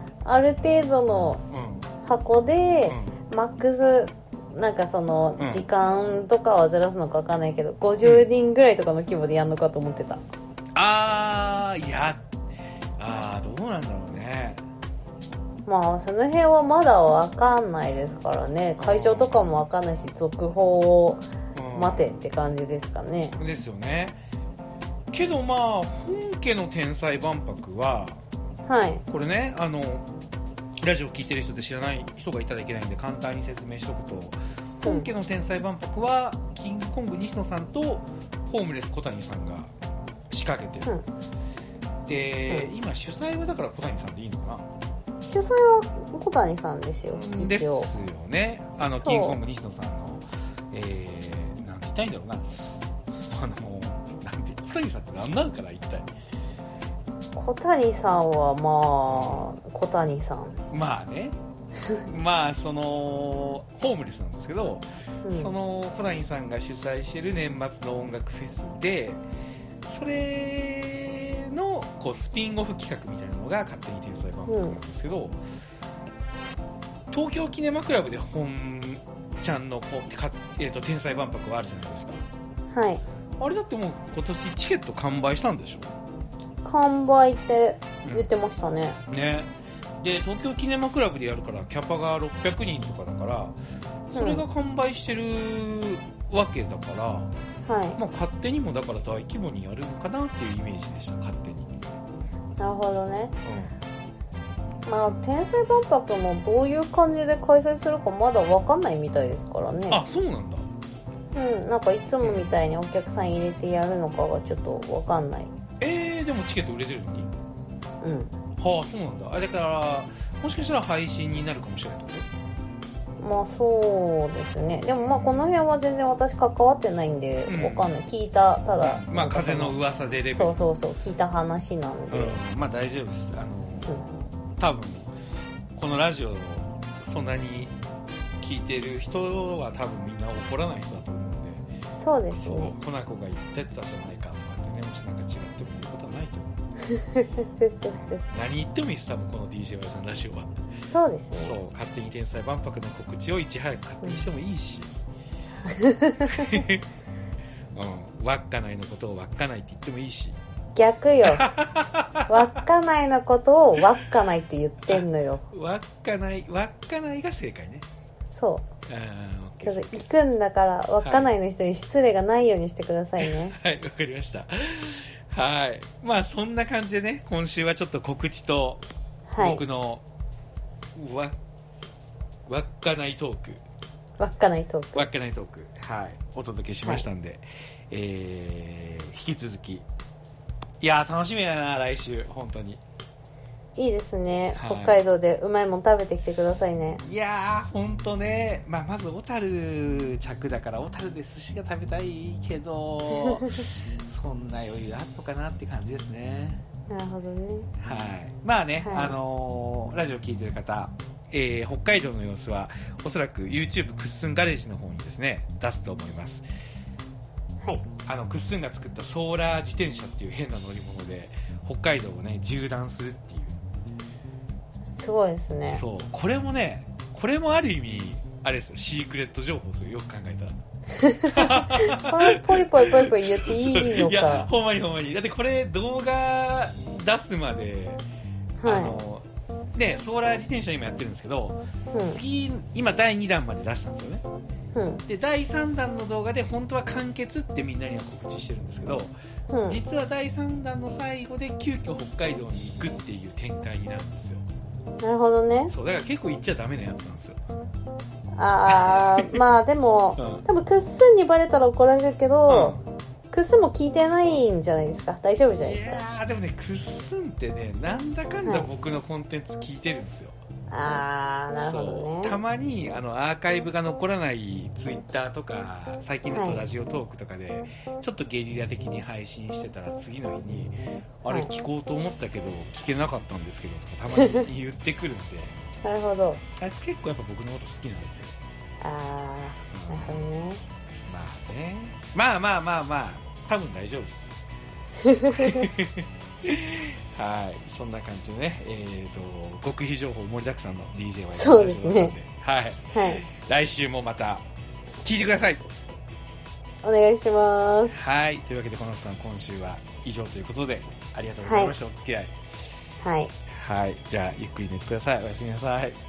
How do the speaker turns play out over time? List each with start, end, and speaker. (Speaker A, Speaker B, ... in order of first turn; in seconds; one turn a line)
Speaker A: 0.2-1.4
Speaker B: 1.5-1.9
Speaker A: 2.0-10.2
Speaker B: 2.9-3.1
Speaker B: 5.4-5.6
Speaker B: 8.0-8.3
Speaker B: 10.7-12.2
Speaker B: 13.0-14.6
Speaker A: 15.6-23.3
Speaker B: 18.8-19.3
Speaker B: 21.5-22.1
Speaker B: 23.4-24.2
Speaker B: 25.1-28.2
Speaker A: 28.6-29.0
Speaker B: 29.1-30.1
Speaker B: 30.8-39.7
Speaker A: 34.8-35.1
Speaker B: 40.3-40.9
Speaker B: 42.0-44.6
Speaker A: 45.2-47.9
Speaker B: 47.1-56.1
Speaker A: 49.0-49.4
Speaker A: 57.3-60.6
Speaker B: 59.1-59.5
Speaker B: 60.7-61.4
Speaker B: 62.0-69.2
Speaker A: 65.2-65.5
Speaker B: 69.8-75.4
Speaker A: 74.5-74.8
Speaker B: 77.1-82.2
Speaker A: 82.7-83.0
Speaker B: 83.4-85.9
Speaker A: 86.6-89.0
Speaker B: 89.1-89.5
Speaker B: 90.0-93.5
Speaker B: 94.1-97.3
Speaker A: 94.1-94.4
Speaker A: 97.7-98.0
Speaker B: 98.0-101.7
Speaker A: 102.6-103.3
Speaker B: 103.4-103.7
Speaker A: 104.8-110.0
Speaker B: 109.9-110.7
Speaker A: 111.3-115.5
Speaker B: 115.8-117.3
Speaker A: 118.0-118.3
Speaker B: 118.6-122.3
Speaker A: 123.2-129.8
Speaker B: 127.5-127.9
Speaker B: 128.8-130.6
Speaker A: 130.3-132.4
Speaker B: 132.1-135.1
Speaker B: 135.8-137.7
Speaker B: 138.4-141.6
Speaker A: 142.0-142.7
Speaker B: 142.3-146.5
Speaker A: 146.9-148.2
Speaker B: 147.9-150.5
Speaker A: 150.8-151.6
Speaker B: 151.3-154.9
Speaker A: 155.6-156.6
Speaker B: 156.3-156.8
Speaker B: 157.7-160.3
Speaker A: 160.7-161.5
Speaker B: 161.2-162.4
Speaker A: 162.3-165.4
Speaker B: 164.8-167.8
Speaker A: 168.3-168.7
Speaker B: 168.9-170.2
Speaker A: 169.6-173.6
Speaker B: 171.0-171.3
Speaker B: 173.2-178.8
Speaker A: 179.3-179.6
Speaker B: 179.4-180.0
Speaker B: 180.9-181.3
Speaker B: 182.5-183.6
Speaker A: 184.2-185.1
Speaker B: 184.9-189.8
Speaker B: 190.8-192.8
Speaker A: 193.8-197.0
Speaker B: 194.5-195.0
Speaker B: 197.0-206.6
Speaker A: 206.9-207.7
Speaker B: 207.8-216.4
Speaker A: 208.8-209.2
Speaker B: 218.1-223.6
Speaker A: 225.0-225.8
Speaker B: 225.7-230.6
Speaker A: 231.0-234.5
Speaker B: 231.2-238.0
Speaker A: 238.6-239.0
Speaker B: 238.6-239.2
Speaker B: 239.8-244.2
Speaker A: 241.9-242.2
Speaker A: 244.7-245.0
Speaker B: 245.1-249.1
Speaker A: 249.5-249.8
Speaker B: 249.7-254.4
Speaker A: 255.0-255.7
Speaker B: 255.7-257.4
Speaker A: 258.3-262.8
Speaker B: 258.7-259.2
Speaker B: 260.2-260.4
Speaker B: 262.5-262.8
Speaker A: 263.3-266.0
Speaker B: 265.6-270.4
Speaker A: 270.7-272.4
Speaker B: 271.6-285.6
Speaker A: 276.3-276.6
Speaker A: 284.2-284.4
Speaker A: 285.8-286.4
Speaker B: 286.6-288.4
Speaker A: 288.8-290.6
Speaker B: 289.7-290.3
Speaker B: 291.1-294.3
Speaker A: 295.0-295.7
Speaker B: 295.3-304.4
Speaker A: 301.3-302.1
Speaker A: 302.9-303.2
Speaker B: 305.0-305.6
Speaker A: 306.8-307.9
Speaker B: 307.9-312.3
Speaker A: 311.4-311.7
Speaker A: 313.0-313.3
Speaker B: 313.5-316.0